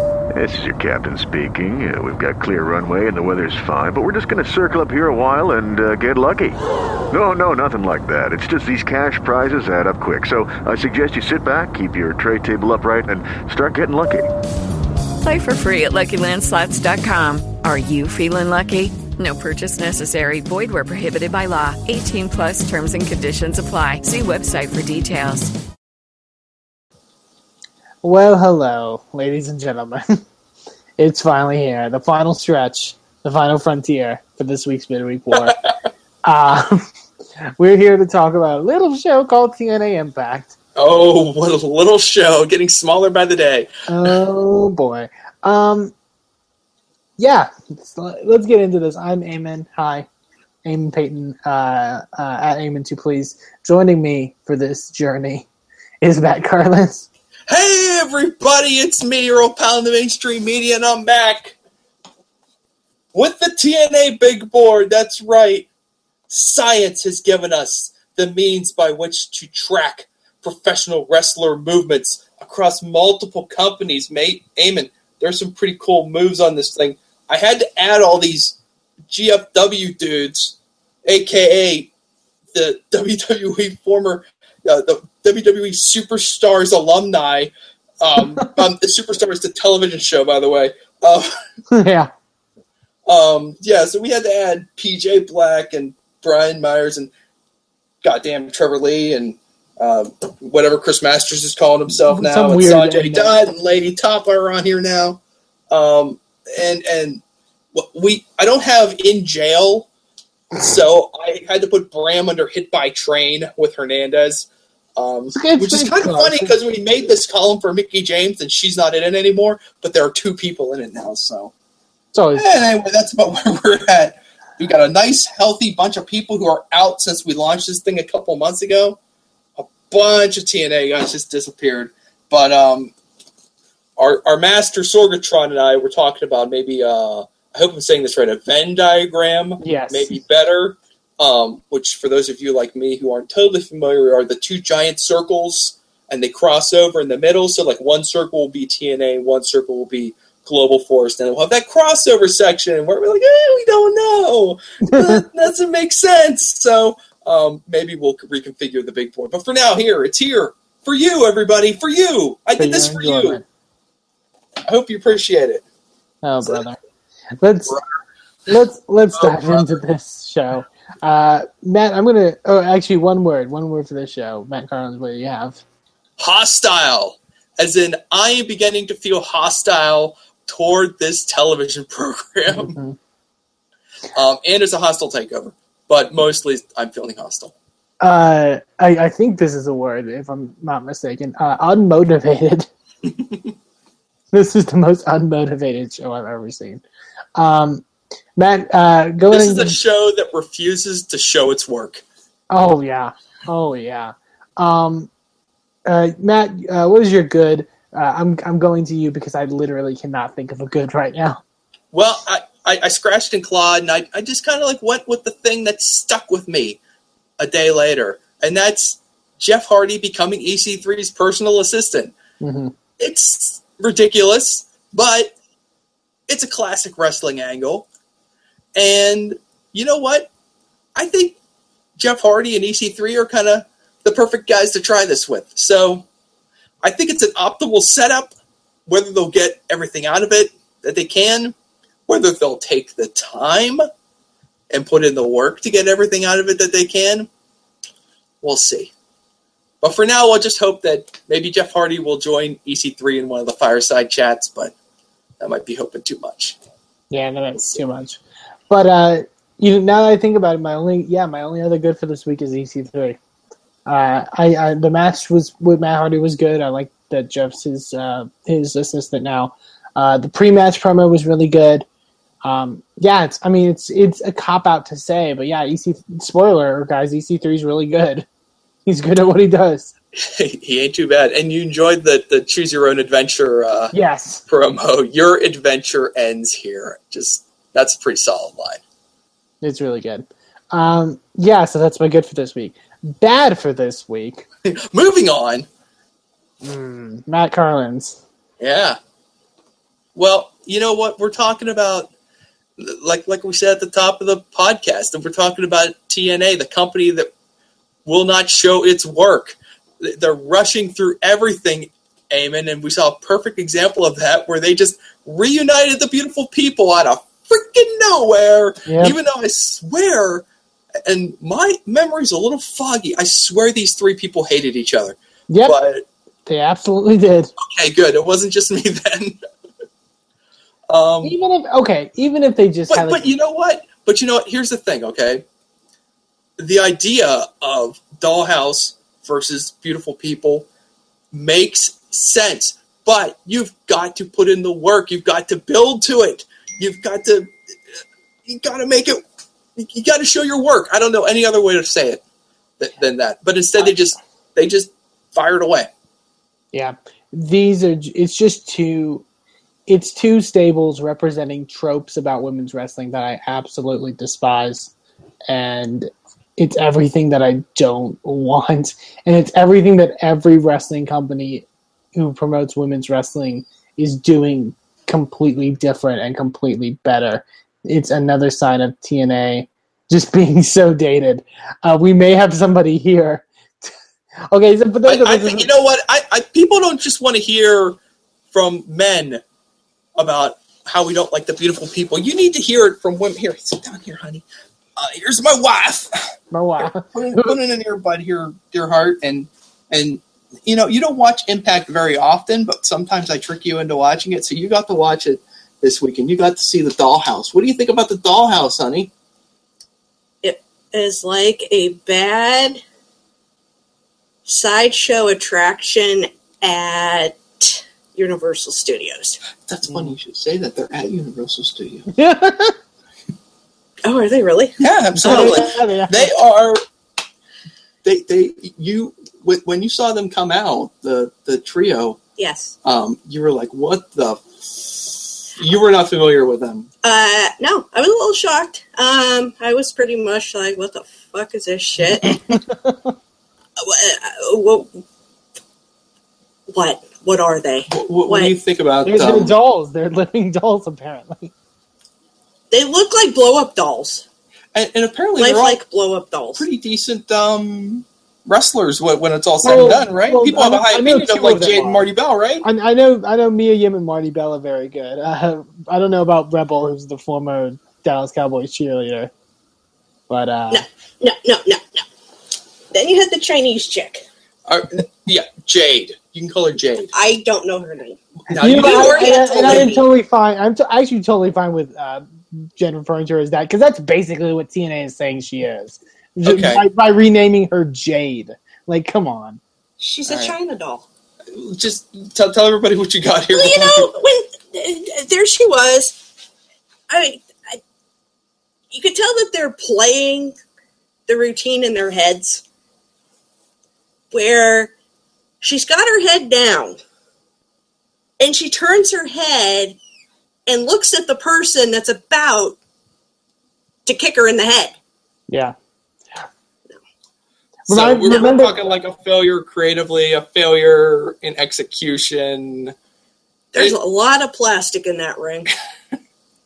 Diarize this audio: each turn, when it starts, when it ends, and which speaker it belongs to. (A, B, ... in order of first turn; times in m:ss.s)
0:00.3-0:06.6 A
0:07.1-0:14.3 A
0:15.2-0:25.5 B
0:28.0-0:30.2 C
0:31.0-0:35.6 C
0:36.2-0:36.8 C
0:37.6-0:40.6 C
0:40.8-0:44.1 D
0:43.9-0:45.9 C
0:47.2-0:50.1 C
0:50.6-0:55.5 C
0:56.0-0:57.1 C
0:57.5-1:01.6 D
1:03.1-1:05.7 D
1:06.3-1:21.9 D
1:22.5-1:31.3 D
1:31.7-1:32.1 C
1:33.1-1:37.1 D
1:38.0-1:45.2 D
1:42.1-1:43.4 C
1:45.7-1:47.2 D
1:47.7-1:49.9 D
1:50.6-2:01.5 D
1:55.3-1:56.6 C
2:02.1-2:02.5 C
2:02.3-2:09.0 D
2:09.6-2:12.9 D
2:14.0-2:43.4 D
2:19.6-2:20.2 C
2:34.9-2:35.2 C
2:42.6-2:43.4 C
2:44.7-2:45.6 D
2:46.2-2:46.8 C
2:47.4-2:47.8 C
2:48.5-2:55.6 C
2:49.1-2:49.8 D
2:56.2-3:02.8 D
3:02.5-3:03.0 C
3:04.1-3:07.5 D
3:08.0-3:12.7 C
3:14.3-3:16.8 C
3:17.4-3:17.8 C
3:18.4-3:19.8 C
3:19.3-3:22.0 D
3:22.5-3:25.1 C
3:25.8-3:31.4 C
3:31.9-3:36.8 D
3:37.4-3:42.1 D
3:42.4-3:42.7 C
3:43.0-3:45.3 D
3:46.3-3:47.9 D
3:48.7-3:50.3 D
3:50.9-3:51.4 D
3:52.0-3:56.1 D
3:56.8-3:58.3 D
3:58.9-4:01.6 D
4:02.1-4:03.8 D
4:04.7-4:07.3 D
4:08.4-4:08.9 D
4:09.8-4:14.7 D
4:15.4-4:16.6 D
4:17.1-4:23.2 C
4:23.8-4:31.8 C
4:32.4-4:38.2 C
4:38.8-4:39.9 C
4:40.1-4:43.9 D
4:43.9-4:44.4 C
4:44.5-4:48.8 D
4:49.6-4:54.4 C
4:54.6-4:55.7 D
4:56.6-4:58.2 C
4:58.6-4:59.0 D
5:00.1-5:02.1 D
5:02.8-5:07.3 D
5:08.0-5:20.4 D
5:18.8-5:19.2 C
5:21.0-5:26.0 D
5:25.5-5:25.8 C
5:26.5-5:27.5 C
5:27.6-5:29.4 D
5:30.9-5:31.4 D
5:31.2-5:33.3 C
5:32.9-5:35.4 D
5:36.6-5:40.7 D
5:41.3-5:47.5 D
5:48.4-5:49.2 D
5:49.8-5:52.2 D
5:52.8-5:55.9 D
5:56.7-5:59.2 C
5:59.9-6:04.9 C
6:05.5-6:23.9 C
6:24.5-6:25.7 C
6:25.0-6:28.0 D
6:28.5-6:29.4 D
6:30.2-6:34.4 D
6:35.0-6:36.2 D
6:36.5-6:37.6 C
6:36.8-6:49.1 D
6:50.4-6:52.8 E
6:54.4-6:59.4 E
6:59.7-7:02.1 D
7:02.1-7:02.8 C
7:04.0-7:05.4 E
7:04.8-7:06.8 D
7:05.1-7:06.3 C
7:08.0-7:12.2 D
7:12.4-7:12.7 E
7:12.8-7:16.9 D
7:17.0-7:22.4 E
7:22.5-7:23.1 C
7:23.8-7:25.0 E
7:26.7-7:28.5 E
7:27.9-7:29.5 D
7:29.0-7:31.5 C
7:32.7-7:34.2 E
7:34.7-7:35.8 D
7:35.4-7:36.6 E
7:36.6-7:42.6 D
7:39.6-7:42.1 C
7:42.6-7:49.3 C
7:50.3-7:50.8 C
7:50.7-7:52.0 E
7:52.9-7:54.2 E
7:54.7-7:57.1 D
7:57.1-8:00.1 E
7:58.5-7:59.9 D
7:58.5-8:09.6 C
8:06.4-8:06.8 D
8:10.0-8:11.0 E
8:10.3-8:10.5 D
8:11.5-8:14.1 D
8:13.5-8:16.2 E
8:17.1-8:17.8 E
8:18.9-8:20.6 E
8:21.3-8:22.6 E
8:24.3-8:24.9 E
8:25.6-8:27.0 E
8:28.4-8:30.0 E
8:30.7-8:32.8 E
8:34.0-8:34.9 E
8:35.5-8:35.7 C
8:37.9-8:38.7 C
8:37.9-8:42.9 D
8:43.7-8:45.7 E